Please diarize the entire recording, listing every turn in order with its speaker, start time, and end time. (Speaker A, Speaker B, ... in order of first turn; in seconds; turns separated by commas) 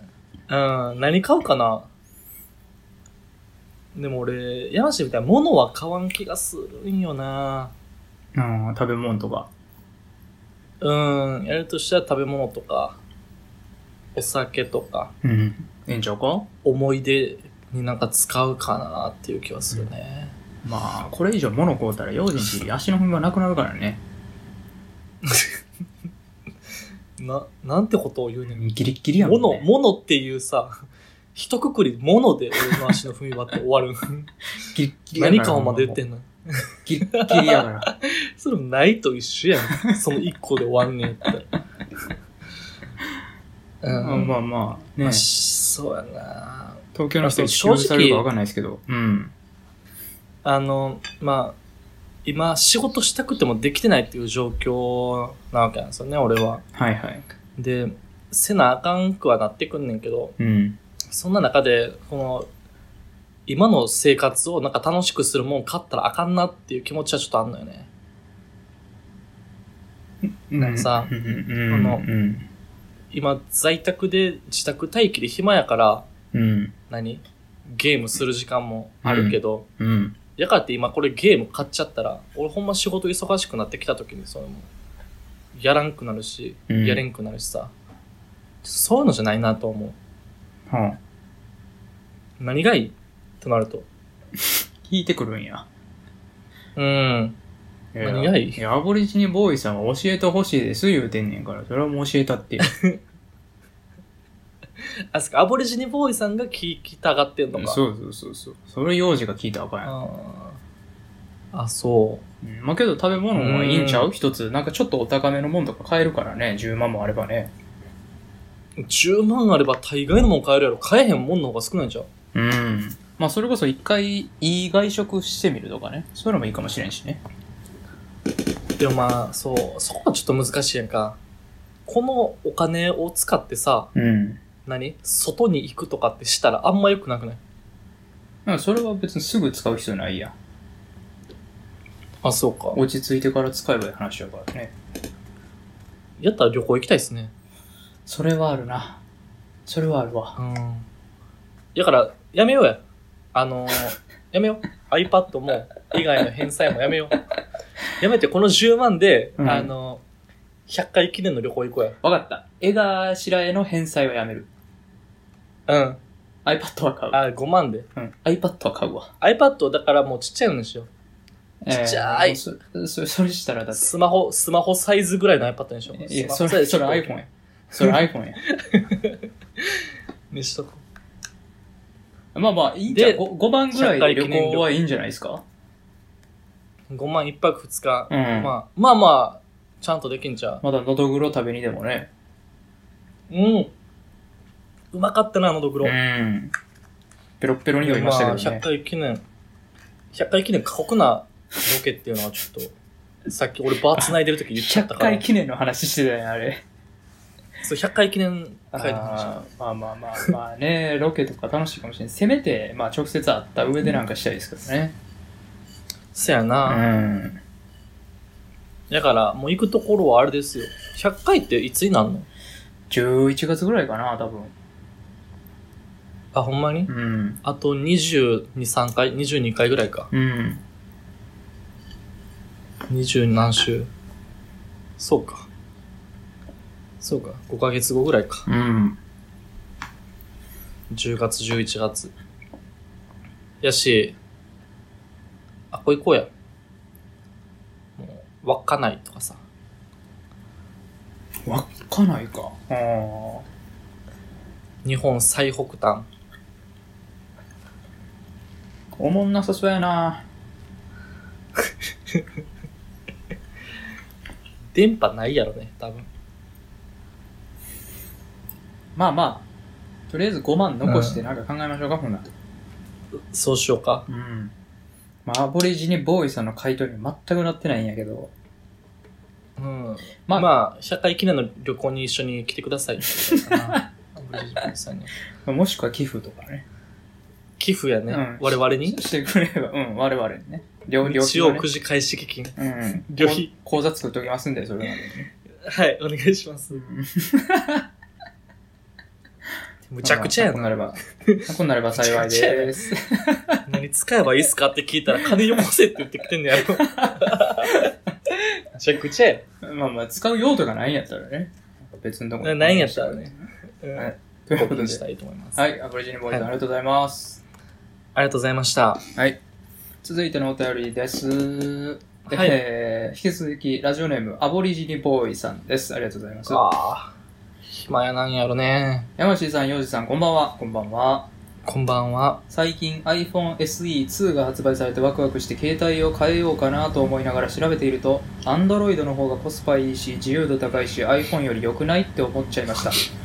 Speaker A: 0.5-1.9, Speaker A: 3.9-7.7, Speaker B: 8.3-9.5, Speaker A: 10.8-13.0, Speaker A: 14.1-15.1, Speaker B: 15.2-16.5, Speaker A: 16.6-20.3, Speaker B: 20.6-24.0, Speaker A: 25.2-25.6, Speaker A: 27.2-28.6, Speaker B: 28.5-29.7, Speaker A: 29.2-34.3, Speaker B: 34.7-36.0, Speaker A: 35.1-41.5, Speaker B: 36.9-37.9, Speaker A: 43.8-44.3, Speaker B: 43.9-45.2, Speaker A: 45.0-48.2, Speaker B: 46.9-49.3, Speaker A: 50.4-51.6, Speaker A: 52.2-56.6, Speaker B: 56.7-57.2, Speaker A: 57.6-60.3, Speaker B: 60.4-60.8, Speaker A: 61.1-62.5, Speaker A: 63.5-67.9, Speaker B: 70.2-72.5, Speaker A: 70.6-71.1, Speaker A: 71.7-72.0, Speaker A: 73.1-76.0, Speaker B: 76.3-76.7, Speaker A: 76.9-79.7, Speaker B: 79.0-80.2, Speaker A: 80.4-84.7, Speaker A: 85.5-87.7, Speaker B: 86.7-87.0, Speaker A: 88.6-90.0, Speaker B: 90.7-91.0, Speaker A: 92.4-93.8, Speaker B: 94.8-95.7, Speaker A: 96.8-97.4, Speaker B: 97.9-102.7, Speaker A: 98.0-98.6, Speaker A: 102.7-103.0, Speaker A: 104.8-107.8, Speaker B: 107.5-109.9, Speaker A: 109.8-110.6, Speaker A: 111.5-112.2, Speaker B: 112.4-117.5, Speaker A: 113.3-114.1, Speaker A: 118.8-122.1, Speaker B: 122.3-127.2, Speaker A: 128.8-131.2, Speaker A: 131.8-133.9, Speaker B: 133.9-134.4, Speaker A: 134.7-137.4, Speaker B: 138.4-140.3, Speaker A: 142.2-142.8, Speaker B: 142.7-144.7, Speaker A: 146.2-147.3, Speaker B: 148.1-149.0, Speaker B: 149.7-150.3, Speaker A: 150.3-150.9, Speaker A: 151.7-152.8, Speaker A: 153.3-157.2, Speaker A: 158.0-160.0, Speaker B: 159.4-159.7, Speaker A: 160.7-162.0, Speaker B: 162.0-164.5, Speaker A: 165.7-166.0, Speaker B: 166.4-167.2, Speaker A: 167.1-167.9, Speaker B: 167.9-169.1, Speaker A: 169.2-170.9, Speaker B: 171.6-173.9, Speaker A: 171.7-172.4, Speaker A: 173.7-177.1, Speaker B: 175.9-178.4, Speaker A: 177.8-180.8, Speaker B: 182.3-185.4, Speaker A: 182.9-184.7, Speaker A: 186.9-190.6, Speaker B: 188.1-188.5, Speaker B: 190.6-192.1, Speaker A: 193.3-193.7, Speaker A: 194.9-195.9, Speaker B: 195.8-196.5, Speaker B: 197.4-198.6, Speaker A: 197.8-199.2, Speaker A: 200.1-202.7, Speaker A: 203.3-205.2, Speaker B: 203.9-206.6, Speaker A: 207.6-209.3, Speaker B: 208.7-215.0, Speaker A: 216.1-216.8, Speaker B: 216.7-217.4, Speaker A: 218.9-222.3, Speaker B: 222.9-224.5, Speaker A: 226.3-226.9, Speaker B: 226.9-227.4, Speaker A: 227.4-230.1, Speaker B: 230.1-230.6, Speaker A: 232.9-233.9, Speaker A: 235.0-235.5, Speaker A: 237.0-238.5, Speaker B: 238.5-239.0, Speaker A: 240.9-242.1, Speaker A: 243.6-244.2, Speaker A: 245.7-246.3, Speaker A: 248.0-249.4, Speaker B: 251.4-253.4, Speaker A: 254.8-256.1, Speaker B: 259.0-260.2, Speaker A: 261.6-262.3, Speaker A: 264.7-266.1, Speaker B: 268.9-269.4, Speaker B: 270.1-272.3, Speaker A: 270.8-271.2, Speaker A: 273.1-274.1, Speaker B: 274.1-274.5, Speaker B: 275.2-278.3, Speaker A: 279.6-285.1, Speaker B: 283.3-283.8, Speaker B: 285.4-286.6, Speaker A: 287.6-289.0, Speaker B: 288.1-291.7, Speaker A: 291.0-292.6, Speaker B: 292.6-295.3, Speaker A: 293.1-293.5, Speaker A: 295.6-296.8, Speaker B: 296.7-297.8, Speaker A: 299.9-302.9, Speaker B: 300.0-303.6, Speaker A: 303.6-307.9, Speaker B: 306.8-307.9, Speaker A: 308.7-309.4, Speaker B: 309.6-315.0, Speaker A: 312.4-315.6, Speaker B: 315.6-317.4, Speaker A: 318.1-319.0, Speaker B: 320.0-326.6, Speaker A: 322.3-322.6, Speaker A: 326.5-327.1, Speaker A: 327.6-329.1, Speaker B: 329.2-331.3, Speaker A: 331.6-332.4, Speaker B: 332.5-343.0